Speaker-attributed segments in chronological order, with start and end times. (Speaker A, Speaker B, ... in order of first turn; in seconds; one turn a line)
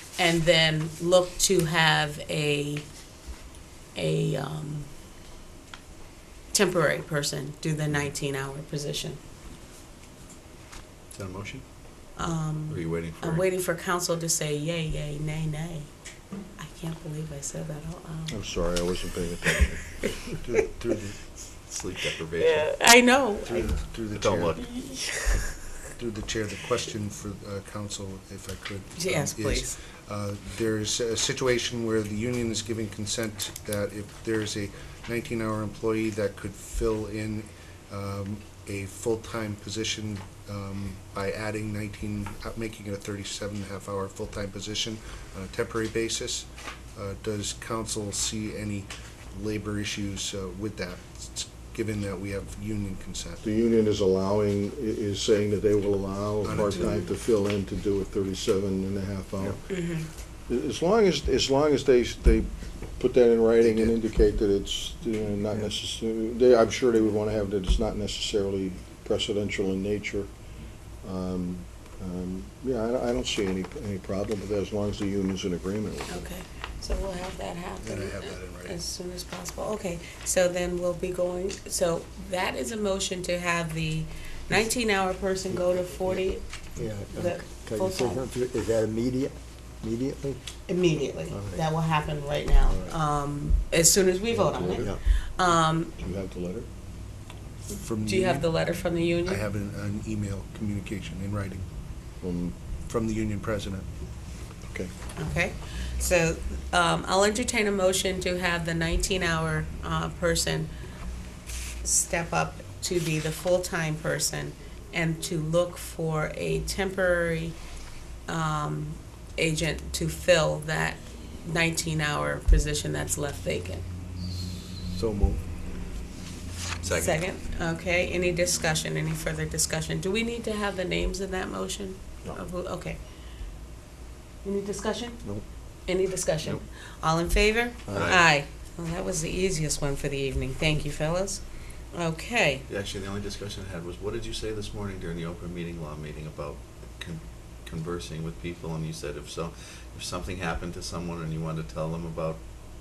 Speaker A: 0.2-2.9
Speaker A: 4.0-4.9
Speaker A: 6.5-9.2
Speaker B: 11.1-11.7
Speaker A: 12.2-15.9
Speaker B: 12.7-13.5
Speaker A: 16.6-18.4
Speaker C: 18.3-19.9
Speaker A: 19.6-20.7
Speaker D: 20.5-21.1
Speaker B: 21.7-22.7
Speaker A: 22.4-23.8
Speaker D: 23.5-24.8
Speaker B: 24.1-24.7
Speaker A: 24.6-25.6
Speaker D: 26.0-53.4
Speaker A: 29.0-29.8
Speaker C: 53.4-59.6
Speaker D: 56.4-57.0
Speaker A: 56.8-57.0
Speaker A: 59.7-60.1
Speaker C: 60.5-62.5
Speaker C: 63.0-70.3
Speaker C: 71.0-76.3
Speaker A: 76.1-86.4
Speaker D: 77.8-78.8
Speaker E: 86.8-90.4
Speaker A: 87.1-88.3
Speaker A: 90.7-95.9
Speaker E: 91.3-91.6
Speaker E: 92.7-92.9
Speaker C: 94.3-95.0
Speaker E: 94.7-95.0
Speaker C: 96.0-96.7
Speaker D: 97.7-98.5
Speaker A: 98.0-99.4
Speaker D: 99.3-101.7
Speaker C: 102.2-102.6
Speaker D: 102.9-103.9
Speaker A: 105.2-110.7
Speaker A: 111.8-117.6
Speaker A: 118.3-123.8
Speaker E: 124.7-125.4
Speaker B: 126.8-127.2
Speaker A: 126.9-133.0
Speaker A: 134.4-135.2
Speaker A: 135.9-141.4
Speaker B: 137.9-138.3
Speaker A: 141.9-142.7
Speaker B: 142.7-152.4